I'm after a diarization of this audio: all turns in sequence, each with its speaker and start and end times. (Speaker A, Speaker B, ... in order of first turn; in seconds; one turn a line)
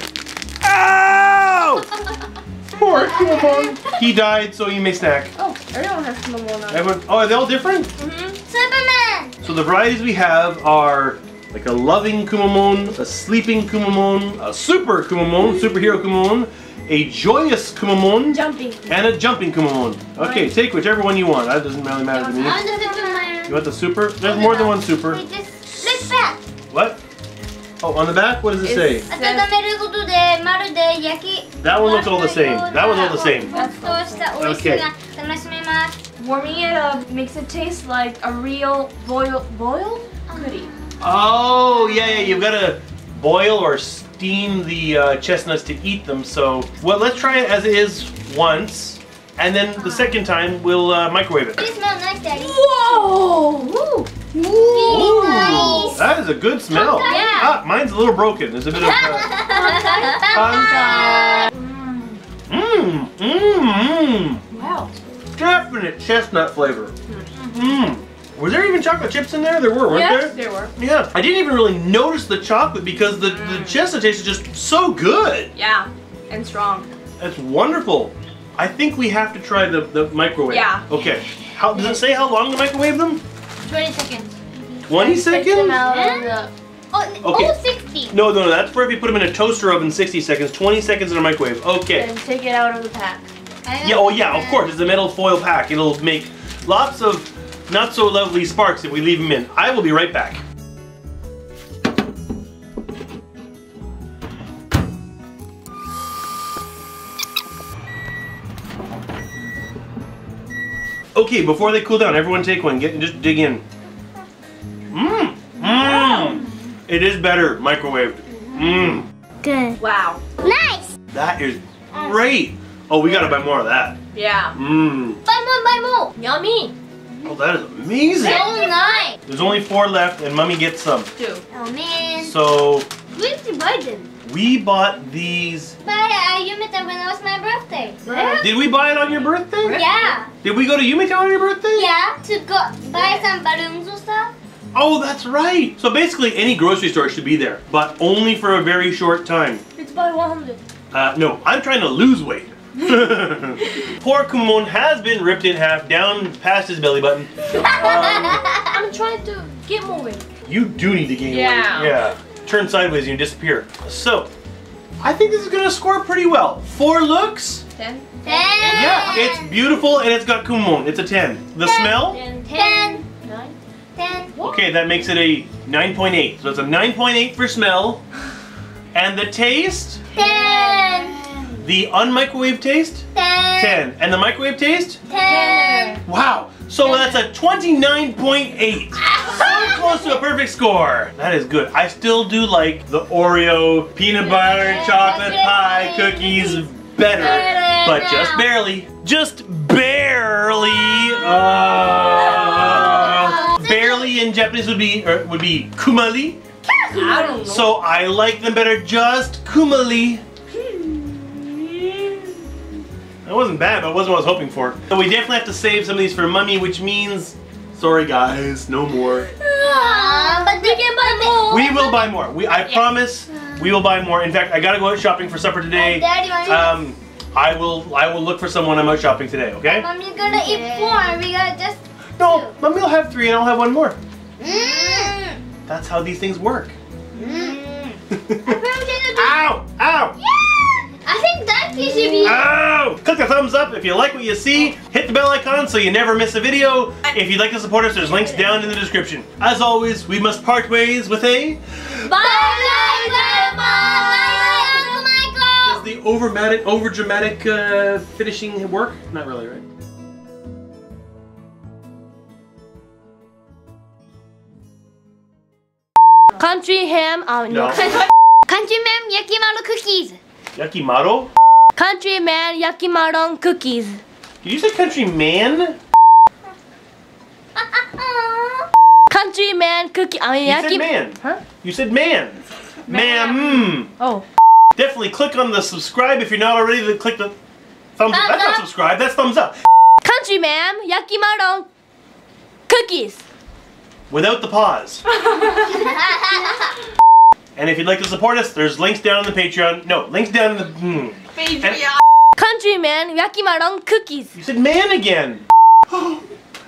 Speaker A: 0.6-1.9
Speaker A: 2.7-5.3
Speaker B: 3.0-3.8
Speaker C: 5.4-6.9
Speaker A: 6.7-7.9
Speaker C: 8.0-8.3
Speaker B: 8.5-9.4
Speaker A: 9.4-22.7
Speaker C: 18.4-18.9
Speaker C: 20.2-20.5
Speaker C: 22.2-23.3
Speaker B: 22.4-23.6
Speaker A: 23.5-25.2
Speaker B: 24.2-26.4
Speaker A: 26.7-27.0
Speaker A: 27.8-29.1
Speaker C: 28.6-29.5
Speaker B: 29.1-36.0
Speaker A: 31.6-33.6
Speaker C: 33.5-34.3
Speaker A: 34.4-34.9
Speaker C: 36.2-40.7
Speaker B: 40.3-42.4
Speaker A: 41.0-51.7
Speaker B: 51.6-52.6
Speaker C: 52.3-56.0
Speaker B: 54.6-56.1
Speaker A: 54.8-59.3
Speaker B: 56.7-57.5
Speaker C: 57.0-57.5
Speaker B: 58.7-61.5
Speaker C: 59.4-62.2
Speaker A: 60.3-61.5
Speaker A: 62.5-64.4
Speaker C: 64.5-64.9
Speaker A: 65.4-66.9
Speaker C: 67.1-67.4
Speaker A: 67.5-75.5
Speaker C: 69.9-70.7
Speaker C: 73.3-73.8
Speaker C: 75.6-76.9
Speaker A: 77.2-83.2
Speaker C: 80.5-80.8
Speaker C: 83.8-84.2
Speaker A: 84.9-85.8
Speaker C: 84.9-86.5
Speaker B: 85.8-86.3
Speaker B: 86.9-88.2
Speaker A: 87.2-87.6
Speaker A: 88.1-92.1
Speaker C: 91.9-93.3
Speaker B: 93.7-94.7
Speaker A: 93.8-100.4
Speaker A: 111.2-113.6
Speaker A: 114.9-119.0
Speaker B: 115.8-116.4
Speaker B: 119.4-119.8
Speaker C: 119.8-120.2
Speaker B: 120.4-120.9
Speaker A: 121.1-124.0
Speaker B: 121.9-122.2
Speaker C: 124.2-124.5
Speaker A: 124.5-125.2
Speaker B: 125.3-126.1
Speaker C: 126.2-126.7
Speaker A: 127.2-128.5
Speaker B: 128.2-129.2
Speaker C: 128.4-129.0
Speaker A: 129.3-131.1
Speaker C: 131.2-131.4
Speaker B: 131.5-132.4
Speaker A: 132.2-132.9
Speaker C: 133.2-134.1
Speaker A: 134.2-135.8
Speaker B: 135.8-138.4
Speaker C: 138.1-138.5
Speaker D: 138.1-138.4
Speaker A: 138.4-139.8
Speaker C: 139.6-140.2
Speaker B: 139.7-140.3
Speaker A: 140.4-141.9
Speaker B: 141.7-144.3
Speaker C: 143.0-143.2
Speaker A: 144.7-149.6
Speaker D: 149.8-150.6
Speaker A: 150.9-158.4
Speaker C: 157.6-160.2
Speaker B: 157.7-158.6
Speaker A: 160.5-164.3
Speaker C: 161.3-162.0
Speaker A: 165.0-167.6
Speaker C: 167.8-169.3
Speaker B: 168.2-169.6
Speaker D: 168.3-169.3
Speaker A: 168.7-172.2
Speaker B: 171.6-173.0
Speaker D: 172.0-172.9
Speaker C: 172.7-173.5
Speaker B: 174.0-174.4
Speaker A: 174.4-178.0
Speaker A: 178.9-180.0
Speaker B: 180.1-181.2
Speaker C: 180.2-181.4
Speaker D: 180.2-180.7
Speaker A: 181.6-183.1
Speaker B: 183.1-183.8
Speaker A: 183.6-185.0
Speaker B: 185.1-186.0
Speaker C: 185.3-186.0
Speaker D: 185.3-185.8
Speaker A: 186.1-206.4
Speaker B: 189.0-190.2
Speaker B: 194.2-198.5
Speaker D: 202.5-203.3
Speaker B: 202.5-204.2
Speaker D: 206.9-207.6
Speaker C: 206.9-207.7
Speaker A: 207.4-210.2
Speaker A: 213.2-219.3
Speaker D: 219.6-221.8
Speaker B: 219.6-221.9
Speaker C: 219.6-221.3
Speaker A: 221.5-229.9
Speaker B: 225.7-226.9
Speaker B: 229.6-232.6
Speaker D: 230.3-231.2
Speaker A: 232.2-234.0
Speaker B: 234.4-235.4
Speaker A: 235.7-236.8
Speaker B: 237.1-239.5
Speaker A: 238.1-238.6
Speaker A: 239.1-240.1
Speaker B: 240.2-242.5
Speaker A: 242.2-251.6
Speaker D: 252.0-254.9
Speaker B: 252.0-255.8
Speaker A: 255.6-259.6
Speaker D: 266.4-268.0
Speaker A: 267.5-267.9
Speaker B: 268.5-270.2
Speaker A: 270.6-271.3
Speaker D: 271.8-274.0
Speaker A: 274.4-275.8
Speaker B: 277.6-278.7
Speaker D: 279.1-281.4
Speaker A: 280.4-283.9
Speaker C: 282.9-283.7
Speaker D: 284.0-284.2
Speaker A: 284.8-287.4
Speaker A: 287.9-289.6
Speaker B: 288.1-288.6
Speaker D: 290.0-291.7
Speaker D: 292.7-293.2
Speaker A: 294.1-295.0
Speaker A: 297.6-301.9
Speaker D: 302.4-304.3
Speaker A: 304.3-306.2